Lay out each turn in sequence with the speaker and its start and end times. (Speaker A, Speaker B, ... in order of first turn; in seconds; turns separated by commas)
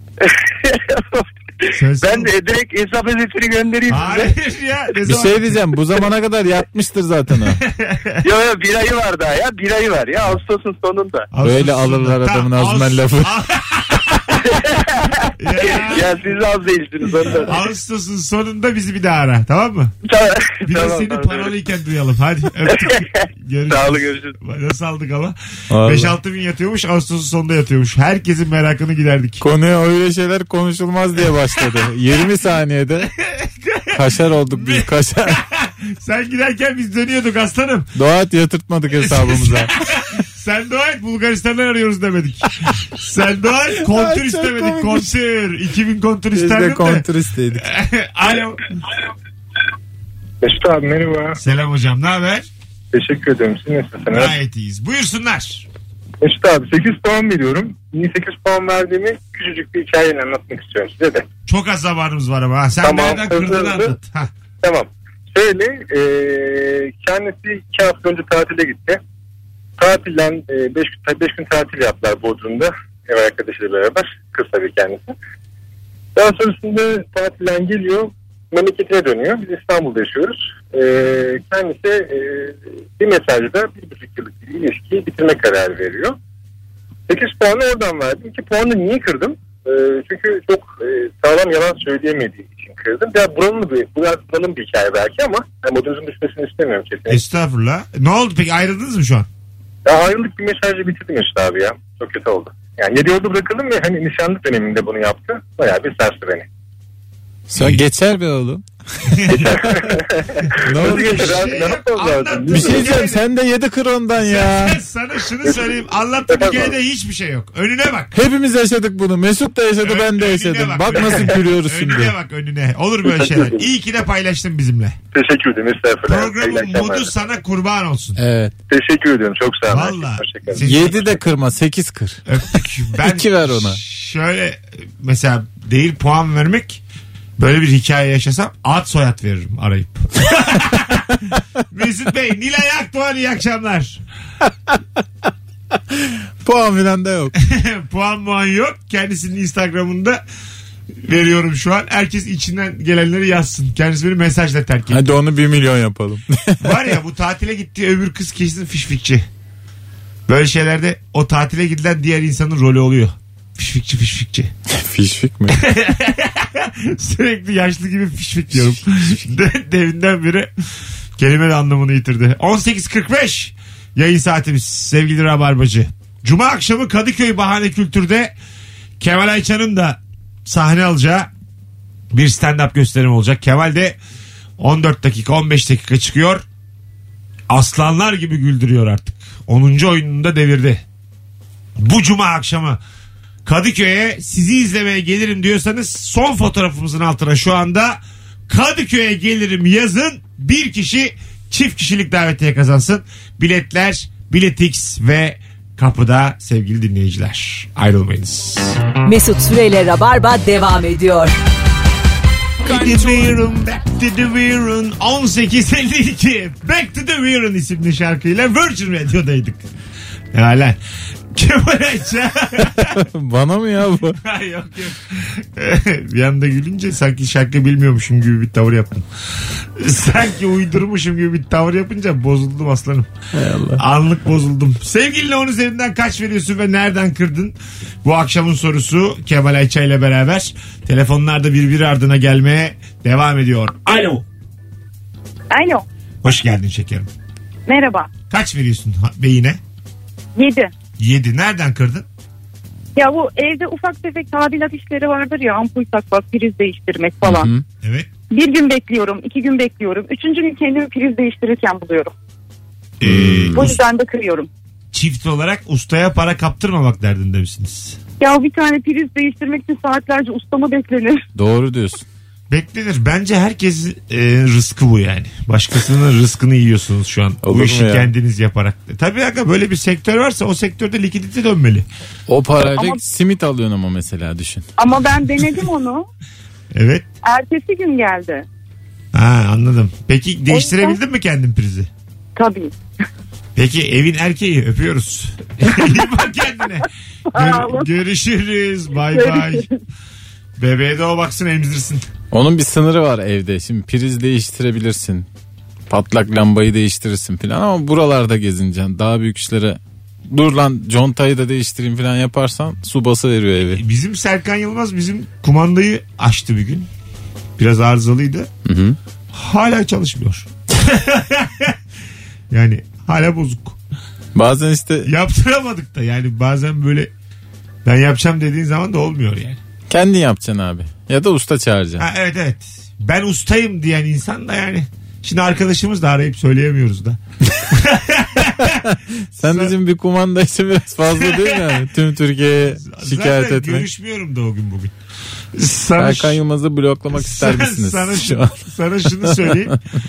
Speaker A: 0.2-4.3, Speaker B: 1.7-2.3, Speaker B: 3.9-5.6, Speaker C: 5.0-7.6, Speaker B: 7.6-8.2, Speaker A: 8.2-11.3, Speaker B: 11.3-14.6, Speaker C: 11.4-13.3, Speaker A: 14.4-17.6, Speaker B: 15.4-16.2, Speaker B: 17.4-19.9, Speaker A: 20.0-21.5, Speaker B: 20.6-29.4, Speaker A: 22.6-24.3, Speaker C: 25.7-26.1, Speaker C: 29.4-33.1, Speaker B: 33.2-37.9, Speaker C: 33.9-35.4, Speaker C: 37.9-39.7, Speaker B: 39.0-47.0, Speaker C: 43.8-45.0, Speaker C: 46.3-47.6, Speaker B: 47.5-48.6, Speaker D: 50.4-51.4, Speaker B: 51.4-52.5, Speaker D: 52.9-54.4, Speaker B: 54.1-55.7, Speaker D: 56.2-61.2, Speaker B: 61.5-64.3, Speaker D: 62.8-63.9, Speaker D: 64.6-69.0, Speaker D: 69.8-75.1, Speaker D: 76.2-86.2, Speaker D: 87.1-97.2, Speaker B: 97.1-99.3, Speaker D: 99.8-106.5, Speaker C: 107.5-108.7, Speaker B: 107.5-107.8, Speaker B: 109.1-109.5, Speaker D: 109.3-113.0, Speaker C: 110.6-111.4, Speaker B: 110.7-113.2, Speaker C: 112.5-114.8, Speaker B: 114.2-118.1, Speaker D: 115.4-115.8, Speaker D: 116.3-116.7, Speaker C: 118.1-122.1, Speaker B: 119.8-125.0, Speaker D: 123.0-123.6, Speaker D: 125.1-127.1, Speaker B: 126.1-128.2, Speaker C: 128.2-128.5, Speaker D: 128.7-130.6, Speaker B: 129.7-131.1, Speaker C: 130.6-132.2, Speaker B: 132.2-136.8, Speaker C: 133.0-133.8, Speaker B: 137.4-144.0, Speaker C: 145.9-147.3, Speaker B: 147.4-150.2, Speaker B: 151.0-155.1, Speaker C: 154.9-156.8, Speaker B: 156.6-159.2, Speaker B: 160.3-164.5, Speaker C: 164.7-165.6, Speaker B: 165.5-170.5, Speaker B: 171.2-178.3, Speaker B: 179.0-181.3, Speaker B: 182.1-184.0, Speaker B: 184.6-186.4, Speaker B: 187.5-190.8, Speaker B: 191.8-192.8, Speaker B: 193.4-208.8, Speaker E: 209.0-211.3, Speaker B: 212.6-219.7, Speaker B: 220.3-220.8, Speaker B: 221.3-223.0, Speaker C: 222.7-224.2, Speaker B: 224.2-233.1, Speaker C: 233.3-233.8, Speaker B: 233.8-244.2, Speaker F: 245.5-245.8, Speaker B: 246.2-247.1, Speaker F: 247.7-248.1, Speaker B: 248.3-249.6, Speaker F: 250.3-250.7, Speaker B: 251.0-252.1, Speaker F: 252.9-257.5, Speaker C: 257.2-257.6, Speaker B: 257.8-258.1, Speaker F: 258.3-262.1, Speaker B: 263.0-263.8, Speaker C: 263.0-263.7, Speaker F: 263.5-264.5, Speaker B: 264.9-268.0, Speaker F: 268.2-271.2, Speaker C: 271.3-272.0, Speaker B: 272.5-281.9, Speaker C: 277.4-278.1, Speaker C: 282.3-284.6, Speaker F: 282.7-283.0, Speaker F: 284.8-286.1, Speaker B: 286.7-287.1, Speaker F: 287.2-288.4, Speaker B: 289.1-291.9, Speaker F: 290.5-291.0, Speaker F: 292.4-292.7, Speaker B: 293.6-299.7, Speaker F: 297.3-297.9, Speaker F: 299.1-299.8, Speaker B: 300.6-302.1, Speaker C: 302.3-305.3, Speaker C: 305.9-313.8, Speaker B: 313.7-316.9, Speaker B: 317.6-318.5, Speaker C: 318.6-319.0, Speaker B: 319.3-321.8, Speaker B: 322.5-323.8, Speaker C: 324.3-325.1, Speaker B: 325.1-327.1, Speaker B: 327.8-329.6, Speaker C: 329.9-332.0, Speaker B: 332.0-337.2, Speaker B: 337.7-339.7, Speaker C: 339.4-343.9, Speaker B: 341.1-341.8, Speaker B: 342.7-344.9, Speaker B: 345.5-346.4, Speaker C: 346.0-348.6, Speaker B: 347.1-349.7, Speaker C: 349.2-349.6